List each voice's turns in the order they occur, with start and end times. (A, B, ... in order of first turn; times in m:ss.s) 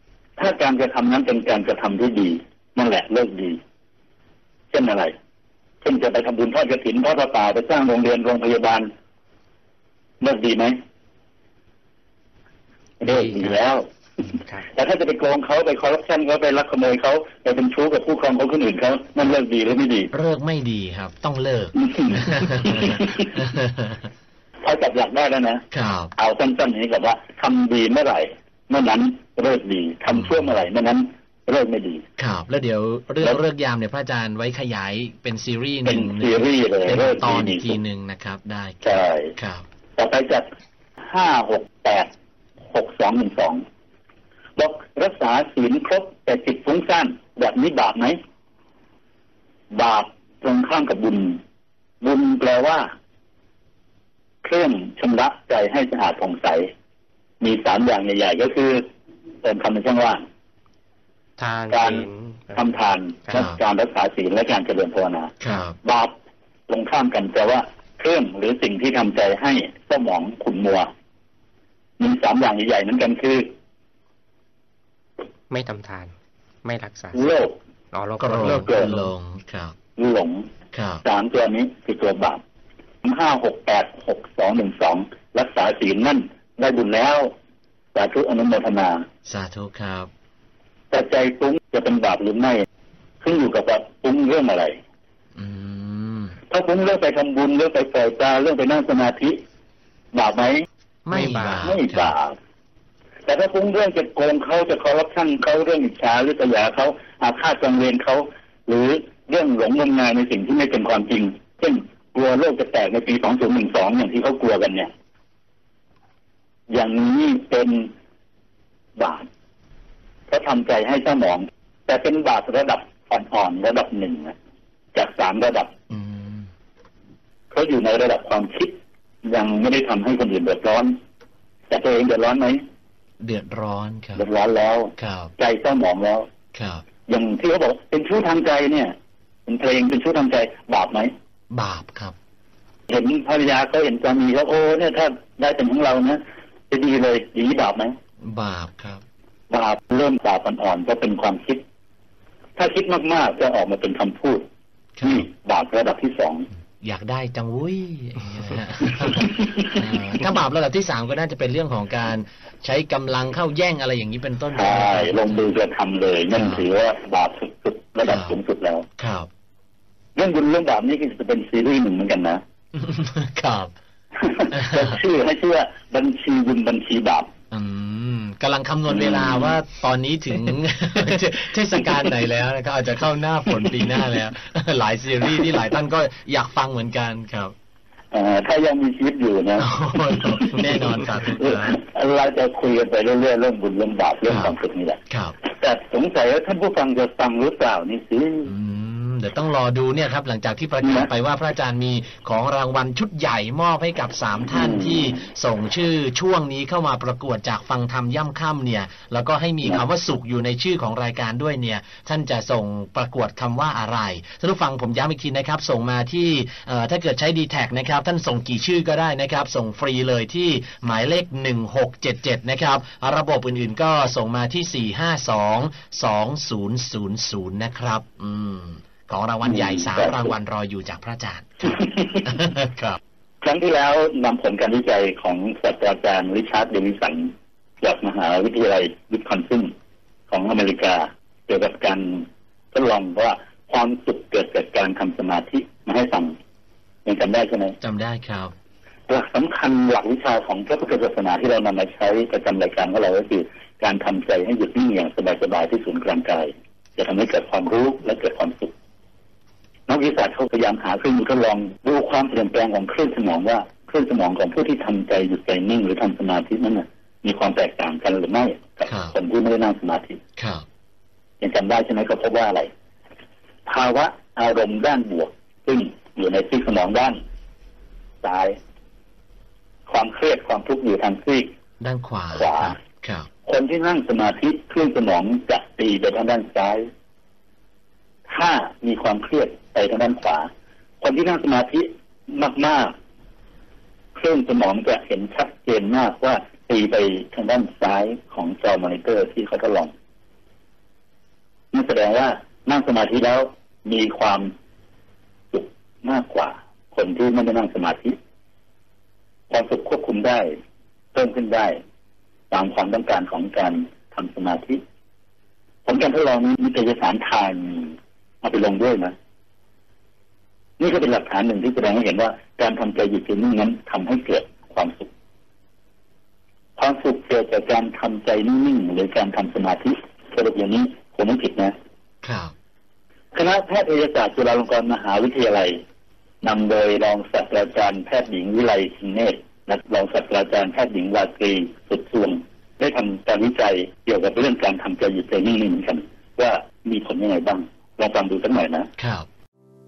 0:00.4-0:03.6 A
0:04.7-0:05.2 A
0:05.8-0:08.9 A
0:10.2-0:10.8 A
0:13.0-0:13.9 A
0:13.0-0:13.6 B
0:14.7-0:20.1 A
0:20.1-0:24.1 C
0:21.8-0:23.3 A
0:24.6-0:25.6 A
0:25.7-0:26.1 C
0:26.2-0:32.0 A
0:30.1-0:30.4 C
0:32.2-0:39.6 C
0:35.9-0:37.8 A
0:38.8-0:39.3 A
0:40.0-0:40.5 A
0:41.0-0:42.1 A
0:42.7-0:43.6 A
0:44.6-0:48.2 A
0:49.7-0:51.4 A
0:52.0-0:52.9 A
0:54.4-0:56.7 A
0:57.4-0:58.9 A
0:59.4-1:00.2 A
1:01.4-1:02.7 B
1:01.7-1:06.2 A
1:03.3-1:03.6 C
1:05.4-1:05.8 C
1:06.7-1:10.9 A
1:12.0-1:13.5 A
1:15.5-1:17.4 B
1:17.1-1:17.6 A
1:17.9-1:18.9 B
1:18.2-1:19.8 C
1:18.4-1:19.1 A
1:20.0-1:20.5 A
1:20.7-1:21.0 C
1:21.0-1:22.4 A
1:23.0-1:27.3 A
1:27.9-1:29.1 A
1:29.3-1:30.1 C
1:30.9-1:32.7 A
1:33.2-1:34.8 A
1:35.4-1:36.4 C
1:36.5-1:39.4 A
1:40.1-1:42.4 A
1:41.1-1:42.2 C
1:41.1-1:41.8 B
1:43.3-1:54.9 A
1:56.7-1:57.9 A
1:59.0-1:59.3 A
2:00.3-2:04.4 A
2:04.9-2:05.7 A
2:05.9-2:06.5 C
2:07.5-2:11.0 A
2:11.7-2:12.6 A
2:13.2-2:14.2 C
2:14.2-2:16.3 A
2:15.0-2:15.3 C
2:16.5-2:16.8 C
2:17.1-2:19.0 A
2:19.5-2:21.1 A
2:21.5-2:22.2 C
2:22.9-2:28.0 A
2:28.3-2:29.0 C
2:29.5-2:31.6 A
2:32.6-2:34.5 A
2:35.0-2:35.3 C
2:35.0-2:36.5 A
2:36.8-2:45.6 C
2:39.1-2:39.8 A
2:44.5-2:48.9 A
2:46.3-2:46.6 C
2:48.0-2:48.4 C
2:49.0-2:49.3 C
2:50.2-2:52.4 A
2:52.8-2:53.7 C
2:54.2-2:57.3 A
2:54.5-2:55.0 C
2:57.5-3:07.6 C
2:58.9-2:59.6 A
3:08.1-3:18.5 A
3:09.6-3:11.8 C
3:14.3-3:14.6 C
3:15.1-3:15.4 C
3:18.5-3:53.0 C
3:20.8-3:21.1 A
3:24.5-3:25.2 A
3:49.5-3:50.3 A
3:51.6-3:52.4 A
3:53.4-3:59.7 A
4:00.3-4:06.4 A
4:07.0-4:07.8 A
4:07.8-4:08.5 C
4:09.1-4:18.7 A
4:19.9-4:30.2 A
4:28.9-4:29.2 C
4:30.4-4:30.6 C
4:31.4-4:32.7 A
4:33.7-4:37.2 A
4:38.2-4:38.6 A
4:39.9-4:41.5 A
4:41.8-4:43.3 C
4:42.3-4:42.8 A
4:43.5-4:46.9 A
4:48.3-4:50.5 A
4:51.0-4:53.0 A
4:54.2-4:59.9 A
5:01.7-5:04.5 A
5:05.5-5:08.2 A
5:09.5-5:10.6 A
5:11.1-5:11.8 A
5:12.5-5:14.8 A
5:15.9-5:19.2 A
5:20.8-5:25.1 A
5:26.8-5:31.8 A
5:32.2-5:32.5 C
5:33.3-5:35.8 A
5:36.4-5:48.9 A
5:49.0-5:49.3 C